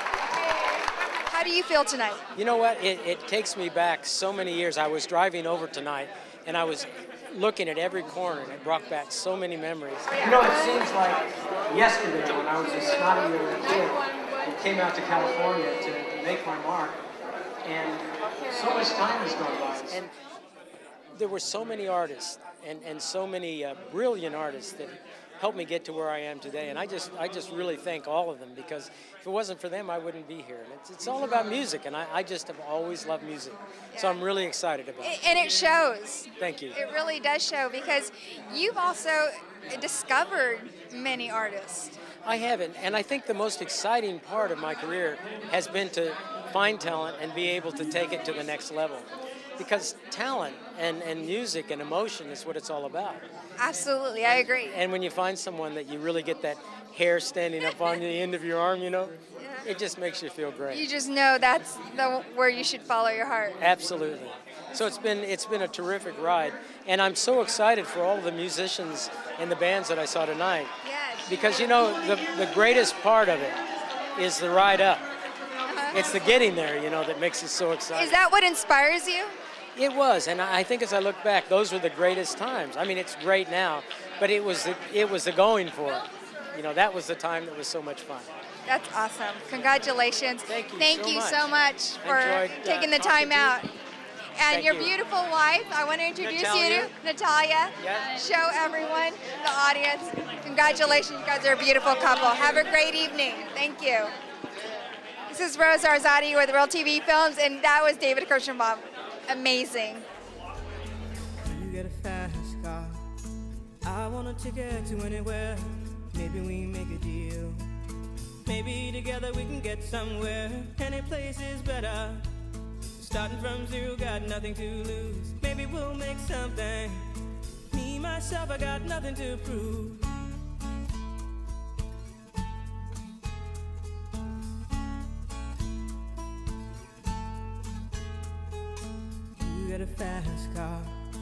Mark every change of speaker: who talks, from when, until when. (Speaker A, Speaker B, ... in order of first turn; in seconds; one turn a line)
Speaker A: 0.5-2.2
Speaker B: 2.4-17.0
Speaker B: 17.6-20.1
Speaker B: 21.1-35.2
Speaker A: 33.9-34.2
Speaker A: 35.0-42.0
Speaker B: 36.4-36.8
Speaker B: 42.2-53.2
Speaker A: 53.6-54.8
Speaker B: 54.7-60.8
Speaker A: 59.4-59.7
Speaker A: 60.7-63.6
Speaker B: 63.6-70.7
Speaker A: 70.8-71.7
Speaker B: 71.3-73.6
Speaker B: 74.2-75.0
Speaker A: 75.6-76.0
Speaker B: 75.9-78.2
Speaker A: 77.9-79.3
Speaker B: 79.8-88.3
Speaker A: 88.7-93.8
Speaker B: 90.5-91.5
Speaker B: 92.0-93.6
Speaker A: 94.4-104.1
Speaker B: 94.5-94.9
Speaker B: 96.2-96.9
Speaker B: 97.8-98.2
Speaker A: 105.3-110.1
Speaker C: 111.4-113.0
Speaker C: 113.8-117.7
Speaker C: 118.5-122.3
Speaker C: 123.0-127.1
Speaker C: 127.7-130.1
Speaker C: 139.4-141.0